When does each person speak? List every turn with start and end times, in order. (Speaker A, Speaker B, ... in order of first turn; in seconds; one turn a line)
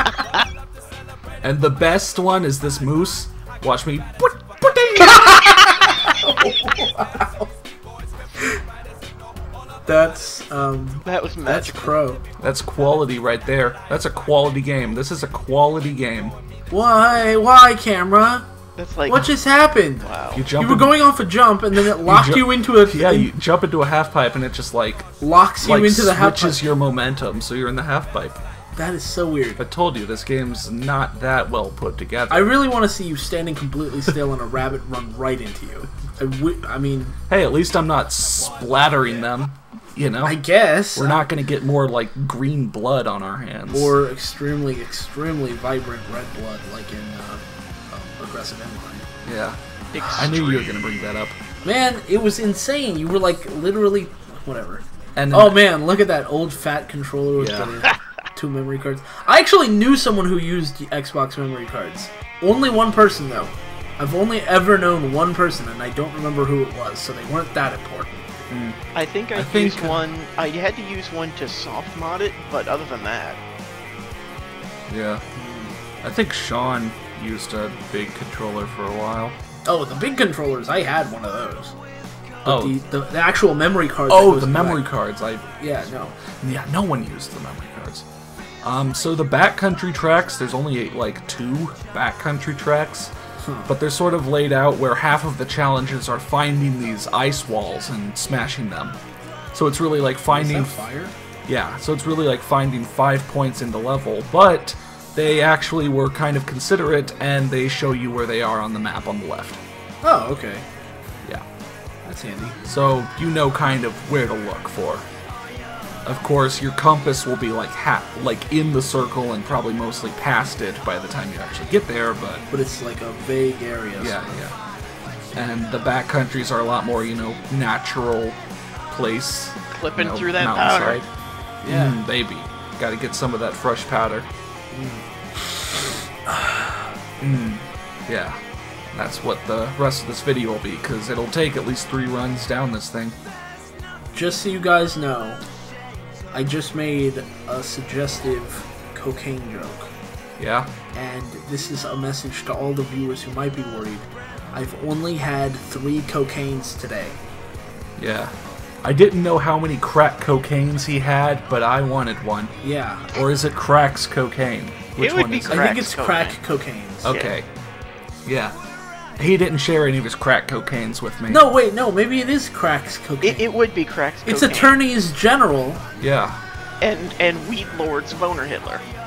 Speaker A: 1.4-5.4
Speaker B: 5.0-7.5
Speaker B: 9.8-12.2
Speaker C: 11.0-11.9
Speaker A: 12.4-16.4
Speaker B: 16.7-18.5
Speaker C: 18.8-19.3
Speaker B: 19.1-23.3
Speaker C: 20.0-20.4
Speaker A: 20.3-21.0
Speaker A: 21.8-25.1
Speaker B: 25.2-26.6
Speaker A: 25.6-28.4
Speaker B: 28.7-29.6
Speaker A: 29.6-32.5
Speaker B: 32.3-37.1
Speaker A: 37.3-40.4
Speaker B: 40.2-41.2
Speaker A: 40.9-43.9
Speaker B: 43.7-49.1
Speaker A: 49.2-49.6
Speaker C: 49.9-51.1
Speaker A: 50.1-51.4
Speaker B: 51.6-68.3
Speaker A: 55.1-55.6
Speaker A: 57.4-57.7
Speaker A: 68.5-68.8
Speaker C: 68.9-73.4
Speaker A: 69.3-70.0
Speaker A: 74.9-75.2
Speaker B: 75.3-75.8
Speaker A: 76.0-79.3
Speaker B: 79.7-81.7
Speaker B: 82.4-84.8
Speaker A: 82.4-82.8
Speaker A: 84.1-88.0
Speaker B: 85.6-86.2
Speaker A: 88.6-93.1
Speaker B: 93.4-93.7
Speaker A: 93.7-99.0
Speaker A: 99.5-100.8
Speaker B: 100.3-101.1
Speaker A: 101.5-109.6
Speaker B: 110.0-110.6
Speaker B: 112.0-112.6
Speaker A: 112.6-115.1
Speaker A: 116.0-122.5
Speaker B: 122.5-124.2
Speaker A: 124.0-124.5
Speaker A: 125.3-128.4
Speaker A: 128.9-131.1
Speaker C: 129.7-131.0
Speaker B: 131.6-132.0
Speaker A: 131.7-134.3
Speaker B: 134.7-135.0
Speaker B: 136.3-136.9
Speaker A: 137.2-138.4
Speaker A: 138.9-143.2
Speaker B: 144.1-145.4
Speaker B: 146.3-149.9
Speaker A: 150.4-150.7
Speaker B: 150.9-157.2
Speaker A: 158.0-162.5
Speaker B: 162.6-163.1
Speaker A: 163.1-165.7
Speaker C: 165.0-166.4
Speaker B: 165.5-167.1
Speaker A: 167.0-167.5
Speaker C: 167.1-167.3
Speaker A: 168.2-168.5
Speaker A: 169.2-171.5
Speaker B: 171.3-173.5
Speaker C: 173.2-174.8
Speaker B: 174.2-175.8
Speaker A: 176.0-176.4
Speaker C: 176.8-178.8